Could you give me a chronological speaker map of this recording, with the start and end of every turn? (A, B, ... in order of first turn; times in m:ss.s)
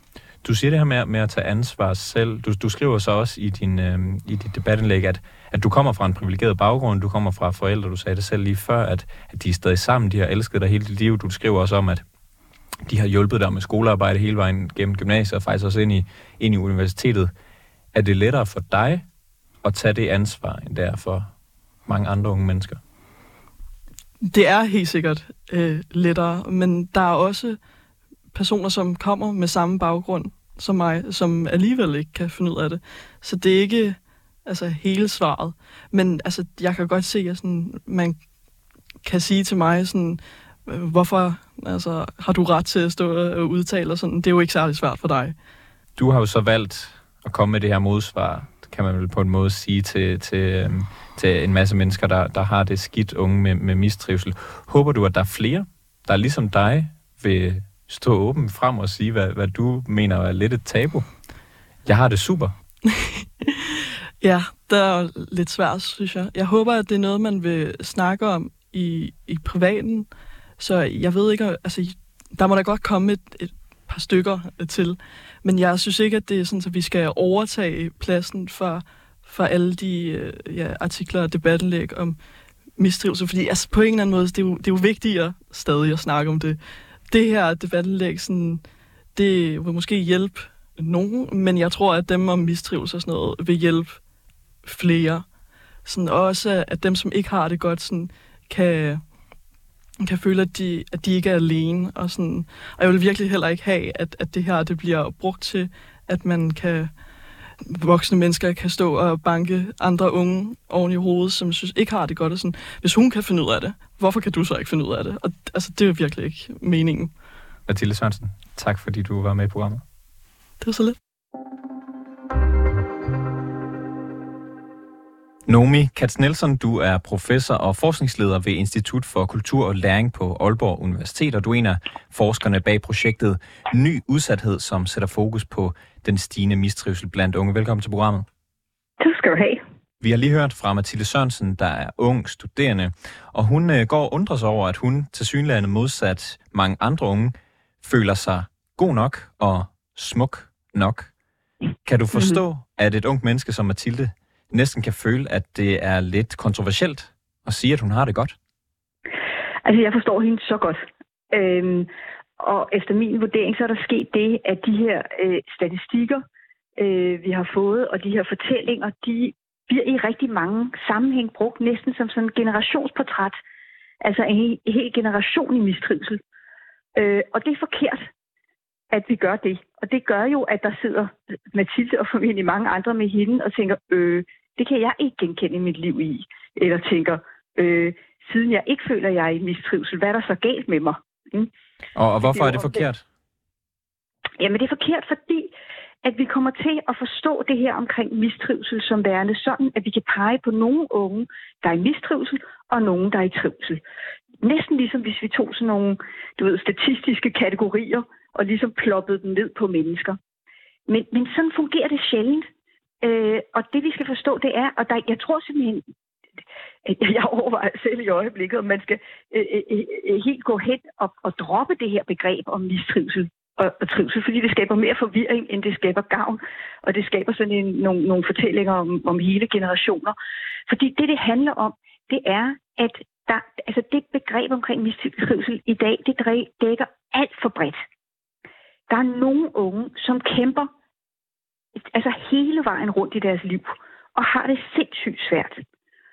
0:00.4-0:12.0 A
0:12.9-0:17.3 A
0:17.9-0:19.0 A
0:19.6-0:21.3 A
0:21.9-0:22.8 A
0:24.2-0:27.6 B
0:28.3-0:38.2 B
0:39.0-0:45.4 B
0:46.0-1:01.1 A
1:01.9-1:02.5 A
1:02.8-1:10.1 B
1:10.6-1:22.2 B
1:22.8-1:26.6 B
1:27.1-1:28.6 B
1:29.2-1:34.0 B
1:34.6-1:35.2 B
1:35.9-1:39.0 B
1:40.0-1:46.9 B
1:47.6-1:57.1 B
1:57.7-1:59.8 A
2:00.6-2:01.0 B
2:05.5-2:18.3 A
2:19.0-2:19.6 C
2:20.0-2:31.1 A
2:31.9-2:38.4 A
2:32.1-2:32.4 C
2:39.6-2:40.8 C
2:41.3-2:46.2 C
2:46.8-2:53.4 C
2:54.0-2:56.2 C
2:57.0-2:58.0 C
2:58.9-3:11.5 C
3:12.0-3:13.0 A
3:12.3-3:12.8 C
3:14.4-3:15.5 C
3:16.0-3:23.8 C
3:24.4-3:30.2 C
3:30.9-3:32.5 C
3:33.0-3:35.8 C
3:36.8-3:50.2 C
3:50.7-3:57.8 C
3:58.9-4:00.7 C
4:01.9-4:05.6 C